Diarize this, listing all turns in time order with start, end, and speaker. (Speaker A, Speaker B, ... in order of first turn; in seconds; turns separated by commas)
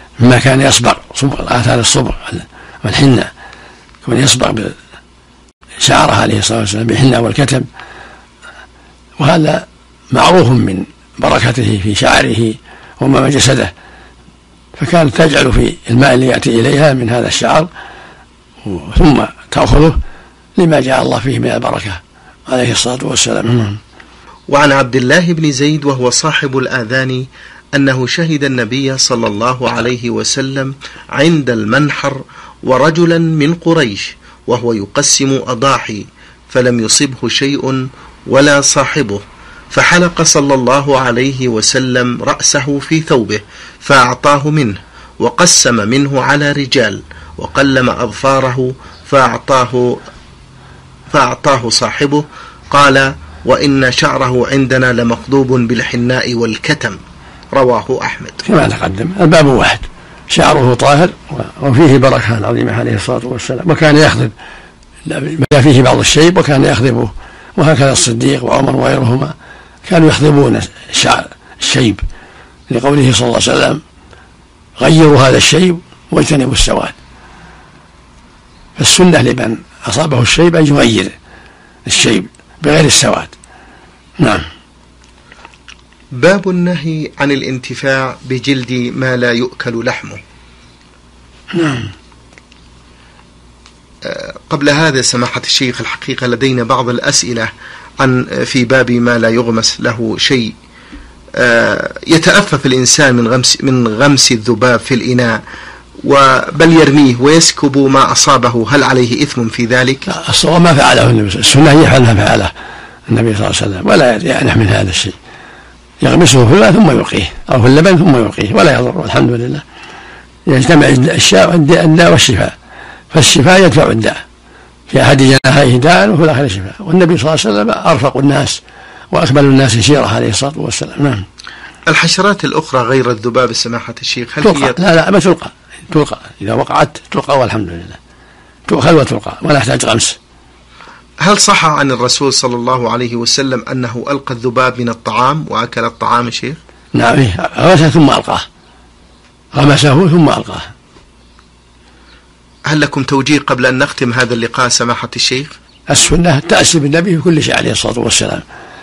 Speaker A: 0.2-3.3, Speaker A: 4.0-4.8, Speaker A: 5.8-7.7, Speaker A: 9.2-13.7, Speaker A: 14.8-17.7, Speaker A: 18.6-20.0, Speaker A: 20.6-23.8, Speaker B: 24.5-50.0, Speaker B: 51.1-57.0, Speaker B: 57.5-58.4, Speaker A: 58.4-64.3, Speaker A: 65.1-69.3, Speaker A: 69.9-72.0, Speaker A: 72.7-73.8, Speaker A: 74.8-77.0, Speaker A: 78.8-81.1, Speaker A: 81.9-83.3, Speaker A: 84.2-84.5, Speaker B: 86.1-90.2, Speaker A: 91.5-91.9, Speaker B: 94.0-100.5, Speaker B: 101.4-105.4, Speaker B: 106.0-110.1, Speaker A: 110.1-112.5, Speaker A: 113.1-115.2, Speaker A: 116.0-119.6, Speaker A: 120.5-122.5, Speaker A: 123.1-124.2, Speaker A: 124.9-128.6, Speaker A: 129.1-131.2, Speaker B: 131.9-134.8, Speaker A: 134.4-138.0, Speaker A: 138.7-140.2, Speaker B: 141.2-146.6, Speaker A: 146.9-148.4, Speaker A: 149.6-150.7, Speaker B: 152.7-155.6, Speaker A: 155.9-158.4